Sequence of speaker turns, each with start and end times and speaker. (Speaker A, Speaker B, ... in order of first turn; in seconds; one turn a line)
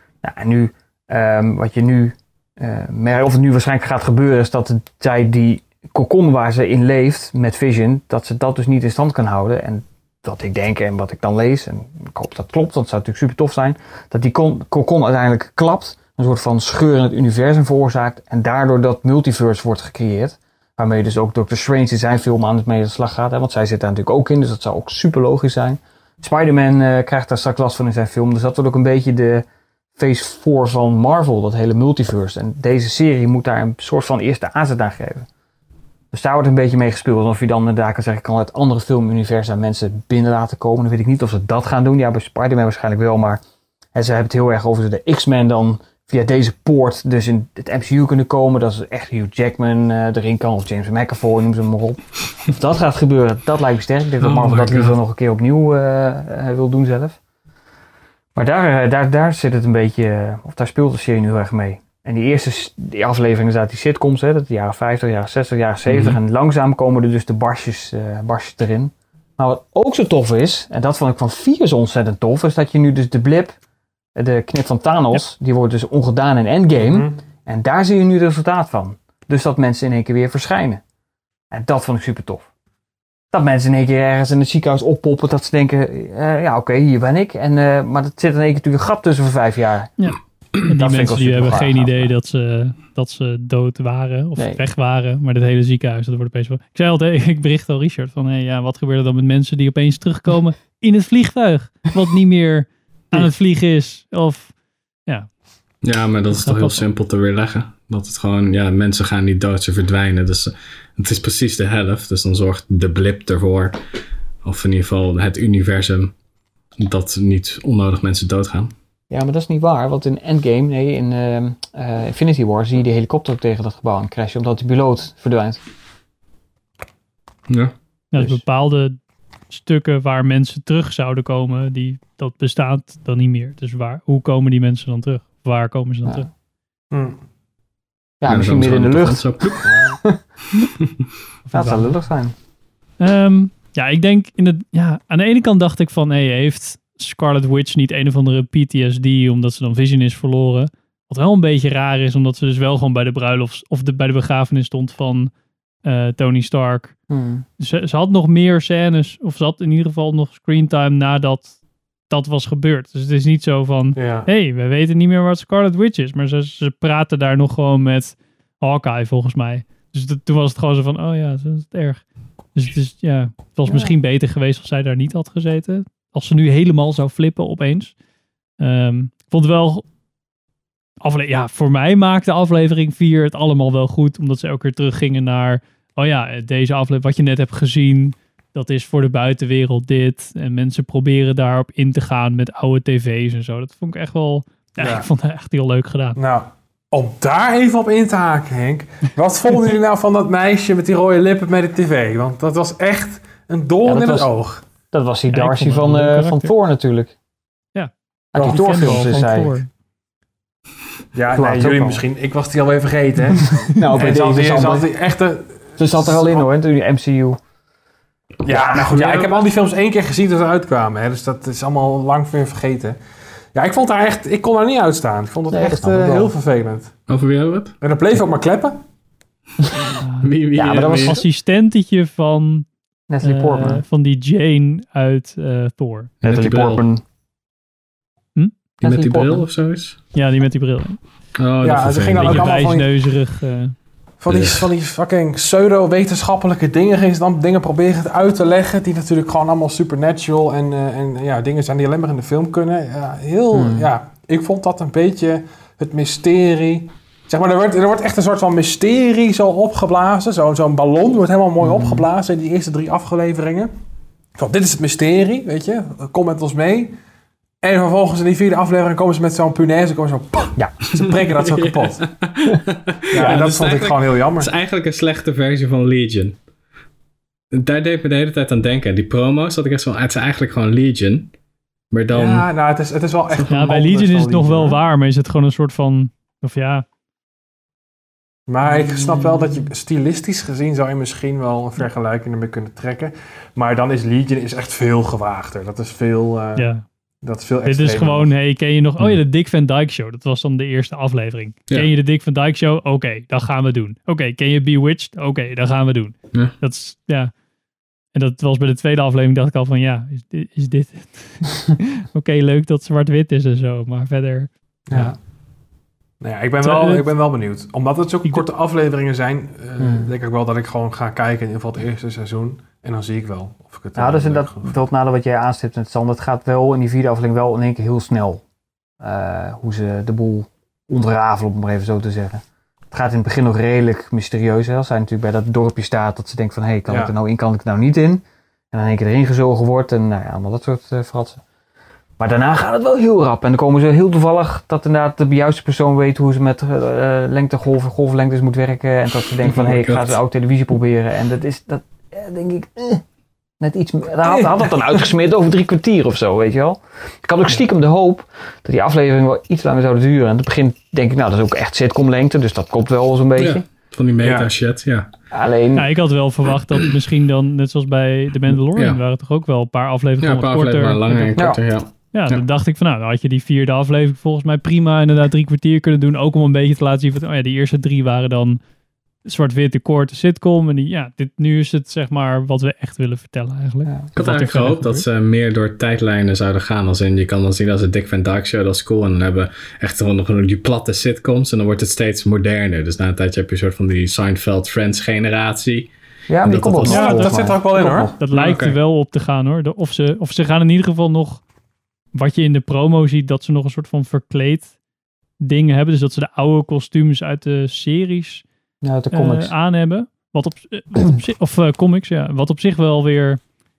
Speaker A: 0.2-29.4
Speaker A: 29.9-35.3
Speaker A: 36.1-43.4
Speaker A: 43.9-57.2
Speaker B: 54.2-55.0
Speaker A: 58.3-73.5
Speaker B: 65.8-66.2
Speaker A: 74.2-80.8
Speaker C: 76.8-77.2
Speaker A: 81.5-82.5
Speaker A: 83.3-89.9
Speaker D: 90.0-104.5
Speaker A: 90.6-92.1
Speaker B: 105.8-113.8
Speaker D: 106.3-106.8
Speaker B: 114.4-116.1
Speaker B: 116.8-118.7
Speaker A: 119.1-125.6
Speaker B: 127.5-127.7
Speaker D: 128.1-129.0
Speaker A: 128.2-128.4
Speaker D: 129.5-136.3
Speaker C: 136.9-137.2
Speaker A: 138.2-140.2
Speaker B: 138.3-139.7
Speaker D: 141.4-141.9
Speaker A: 141.5-142.3
Speaker D: 143.0-155.3
Speaker D: 155.8-156.9
Speaker A: 157.1-157.4
Speaker D: 157.6-161.5
Speaker D: 162.1-177.9
Speaker C: 163.9-164.3
Speaker A: 173.7-173.9
Speaker D: 178.6-179.8
Speaker D: 181.0-196.2
Speaker C: 194.8-195.1
Speaker C: 196.2-204.6
Speaker A: 203.8-204.3
Speaker A: 204.9-207.1
Speaker D: 205.3-206.5
Speaker D: 207.7-209.7
Speaker A: 208.3-209.6
Speaker C: 208.3-209.1
Speaker C: 211.1-216.5
Speaker A: 211.3-212.0
Speaker A: 213.7-214.9
Speaker A: 215.8-217.4
Speaker C: 218.4-223.0
Speaker A: 218.5-219.0
Speaker B: 218.7-219.4
Speaker C: 223.5-226.9
Speaker A: 225.5-226.3
Speaker B: 227.1-227.7
Speaker C: 227.8-228.8
Speaker D: 230.0-230.3
Speaker B: 230.2-231.2
Speaker A: 230.5-231.2
Speaker D: 230.9-232.7
Speaker A: 233.1-233.8
Speaker D: 233.2-236.1
Speaker B: 236.2-236.8
Speaker A: 236.2-237.0
Speaker A: 238.8-239.5
Speaker B: 238.8-240.0
Speaker D: 240.1-241.0
Speaker B: 241.4-242.5
Speaker C: 241.6-242.9
Speaker D: 242.2-243.7
Speaker C: 244.2-263.7
Speaker B: 244.3-244.7
Speaker A: 253.5-253.9
Speaker A: 261.6-262.1
Speaker C: 264.4-266.9
Speaker C: 267.6-272.0
Speaker B: 271.0-276.4
Speaker C: 273.1-274.5
Speaker B: 277.5-281.3
Speaker B: 281.9-282.5
Speaker C: 282.1-284.8
Speaker D: 283.5-286.9
Speaker C: 288.5-296.7
Speaker D: 296.6-296.8
Speaker C: 297.2-298.3
Speaker D: 297.6-307.3
Speaker D: 308.1-314.5
Speaker C: 314.9-315.1
Speaker C: 316.2-324.8
Speaker D: 316.6-317.0
Speaker A: 319.8-320.1
Speaker A: 323.9-328.4
Speaker A: 329.0-341.4
Speaker C: 336.9-337.1
Speaker A: 342.2-353.0
Speaker B: 349.5-350.2
Speaker A: 353.6-363.6
Speaker B: 363.4-365.1
Speaker C: 364.2-364.5
Speaker A: 365.3-365.9
Speaker D: 365.8-371.5
Speaker B: 368.7-369.0
Speaker B: 370.2-372.4
Speaker A: 371.3-371.6
Speaker D: 372.1-378.6
Speaker D: 379.2-385.0
Speaker B: 384.1-395.9
Speaker A: 396.3-398.1
Speaker B: 396.4-397.2
Speaker C: 396.9-398.1
Speaker D: 396.9-397.4
Speaker D: 398.2-401.4
Speaker B: 398.3-398.8
Speaker D: 402.1-404.7
Speaker D: 405.4-408.4
Speaker A: 408.8-409.5
Speaker D: 409.1-413.4